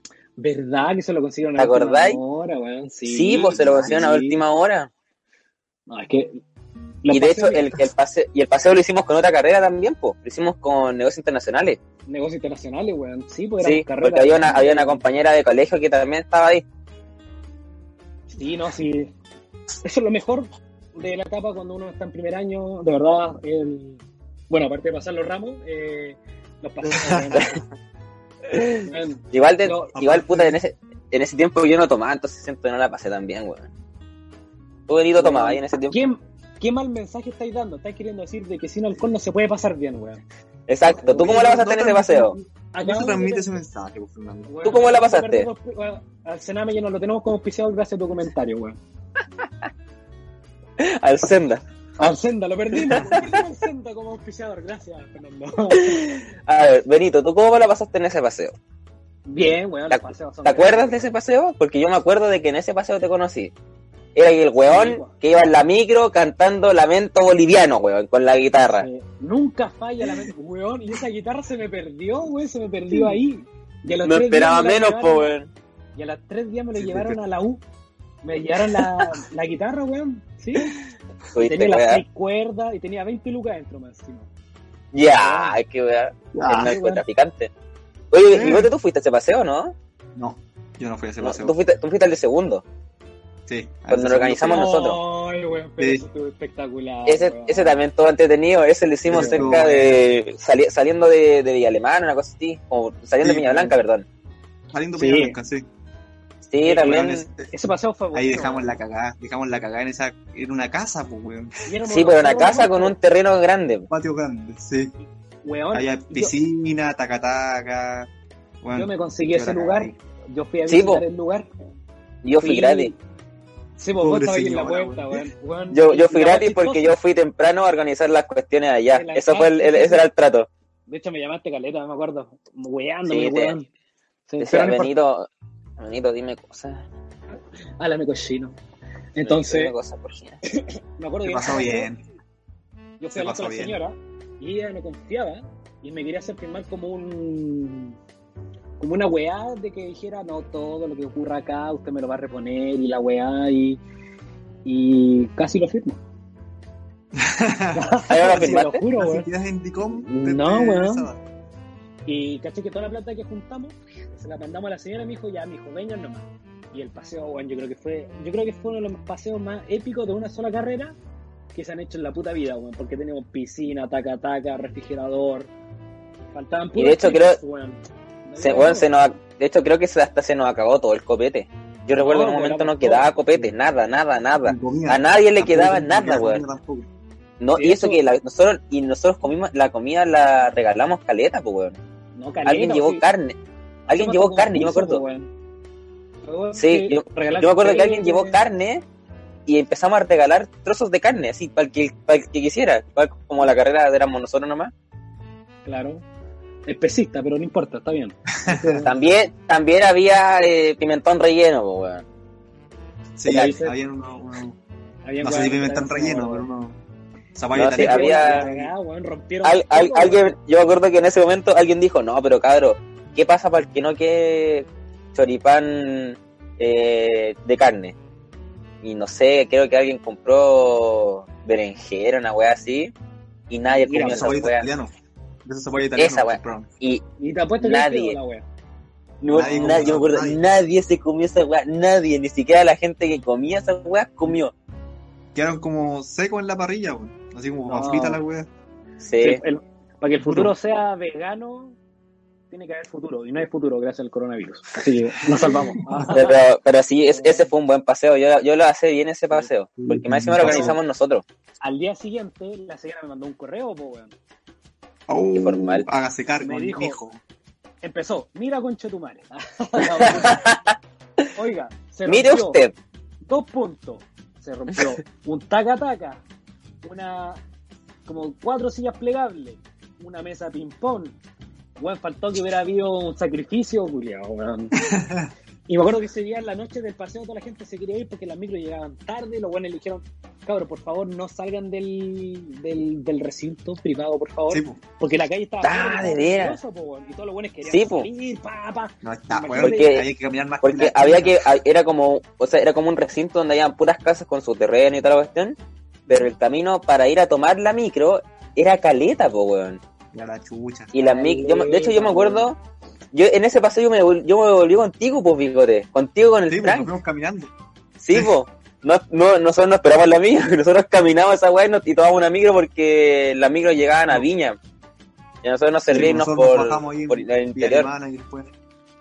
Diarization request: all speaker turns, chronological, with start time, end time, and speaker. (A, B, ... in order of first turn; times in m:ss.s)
0:00.4-0:04.4 A
0:01.6-0:02.2 B
0:03.0-0:04.9 B
0:03.3-0:04.0 C
0:05.9-0:06.4 A
0:07.0-0:07.7 A
0:07.1-0:11.8 B
0:12.1-0:15.0 A
0:13.6-0:16.6 B
0:18.3-0:19.1 A
0:19.8-0:27.6 A
0:28.5-0:33.7 B
0:28.8-0:30.0 A
0:30.0-0:30.6 C
0:34.9-0:36.0 B
0:35.2-0:40.2 A
0:40.7-0:42.4 B
0:41.0-0:41.5 A
0:41.0-0:44.5 C
0:42.7-0:43.5 A
0:44.5-0:48.8 A
0:44.6-0:45.5 B
0:50.8-0:51.6 B
0:52.0-0:56.0 A
0:55.8-0:58.5 B
0:59.3-1:01.0 A
0:59.9-1:03.5 B
1:04.1-1:08.9 B
1:04.6-1:05.1 A
1:08.7-1:15.3 A
1:14.0-1:15.5 B
1:16.0-1:17.6 A
1:16.7-1:17.2 C
1:18.2-1:20.8 A
1:21.3-1:22.0 B
1:21.4-1:24.3 A
1:24.9-1:27.5 B
1:25.1-1:25.6 A
1:26.3-1:26.8 C
1:26.5-1:27.0 A
1:28.1-1:29.7 B
1:28.3-1:28.7 C
1:30.1-1:31.6 C
1:31.2-1:32.6 B
1:33.5-1:34.6 C
1:33.9-1:35.0 B
1:34.4-1:37.8 A
1:35.8-1:36.0 C
1:37.0-1:44.0 B
1:39.1-1:40.0 C
1:39.1-1:39.6 A
1:43.2-1:43.8 C
1:44.7-1:45.7 C
1:45.0-1:45.4 A
1:46.4-1:47.2 B
1:46.6-1:48.7 A
1:46.9-1:47.5 C
1:48.1-1:51.5 C
1:51.6-1:53.0 A
1:51.8-1:53.9 B
1:53.9-1:54.9 C
1:55.4-1:56.3 A
1:55.7-1:58.1 C
1:58.6-2:00.0 C
1:58.7-2:01.5 A
2:00.7-2:01.0 B
2:02.2-2:02.9 B
2:02.4-2:03.0 A
2:03.8-2:06.9 A
2:04.0-2:05.2 C
2:05.7-2:10.5 B
2:08.9-2:10.1 A
2:10.9-2:13.7 A
2:13.1-2:13.5 B
2:14.3-2:14.9 A
2:14.4-2:15.3 B
2:15.8-2:16.8 B
2:17.8-2:18.6 A
2:19.1-2:19.7 A
2:19.2-2:20.4 B
2:20.5-2:21.9 A
2:21.2-2:22.0 C
2:23.0-2:28.0 A
2:23.1-2:23.8 C
2:28.8-2:33.8 A
2:34.6-2:36.0 A
2:37.1-2:41.2 C
2:37.7-2:39.3 A
2:38.1-2:38.8 B
2:39.9-2:41.1 A
2:42.0-2:51.0 A
2:51.5-2:55.5 A
2:56.3-2:58.9 A
2:56.7-2:57.4 B
2:58.4-3:06.4 B
3:02.0-3:03.5 A
3:04.4-3:06.9 C
3:07.4-3:11.8 B
3:07.5-3:08.0 A
3:12.2-3:13.0 A
3:12.4-3:13.3 B
3:13.9-3:15.0 B
3:13.9-3:15.3 A
3:16.2-3:18.4 A
3:16.6-3:18.8 B
3:19.5-3:24.7 B
3:25.6-3:26.0 A
3:26.6-3:28.9 A
3:28.4-3:28.8 C
3:28.8-3:32.0 B
3:33.2-3:34.6 C
3:33.3-3:33.7 A
3:35.0-3:36.4 A
3:35.2-3:36.8 C
3:37.3-3:38.7 C
3:37.5-3:38.5 B
3:37.5-3:40.3 A
3:39.4-3:47.9 B
3:48.8-3:52.9 B
3:53.5-3:54.6 B
3:53.8-3:54.3 A
3:53.9-3:54.9 C
3:55.4-3:56.7 C
3:56.0-3:57.0 B
3:57.2-3:58.4 A
3:57.6-3:58.2 B
3:59.2-4:04.5 B
3:59.3-4:00.4 C
4:05.3-4:08.5 C
4:07.7-4:08.2 A
4:09.0-4:09.4 B
4:09.2-4:11.8 A
4:10.2-4:10.5 C
4:12.5-4:16.4 A
4:15.4-4:16.1 C
4:16.1-4:21.2 B
4:17.1-4:17.5 A
4:19.8-4:20.8 C
4:20.4-4:20.7 A
4:21.6-4:24.1 A
4:25.1-4:27.2 C
4:25.3-4:25.8 B
4:26.4-4:27.0 A
4:27.8-4:30.4 A
4:30.0-4:30.8 B
4:31.3-4:32.6 A
4:32.0-4:32.7 B
4:33.2-4:36.2 A
4:36.8-4:37.4 A
4:38.0-4:41.2 A
4:41.8-4:44.9 A
4:44.8-4:45.3 C
4:45.7-5:00.0 A
4:54.5-4:54.8 C
4:55.6-4:56.6 B
4:57.6-4:58.1 B
4:59.0-5:01.4 C
4:59.6-5:00.1 B
5:00.6-5:05.6 B
5:06.1-5:09.8 B
5:10.1-5:10.9 C
5:10.9-5:12.6 B
5:11.0-5:12.5 A
5:13.1-5:16.9 B
5:16.5-5:17.5 C
5:18.0-5:24.6 B
5:25.4-5:27.9 B
5:25.9-5:28.5 C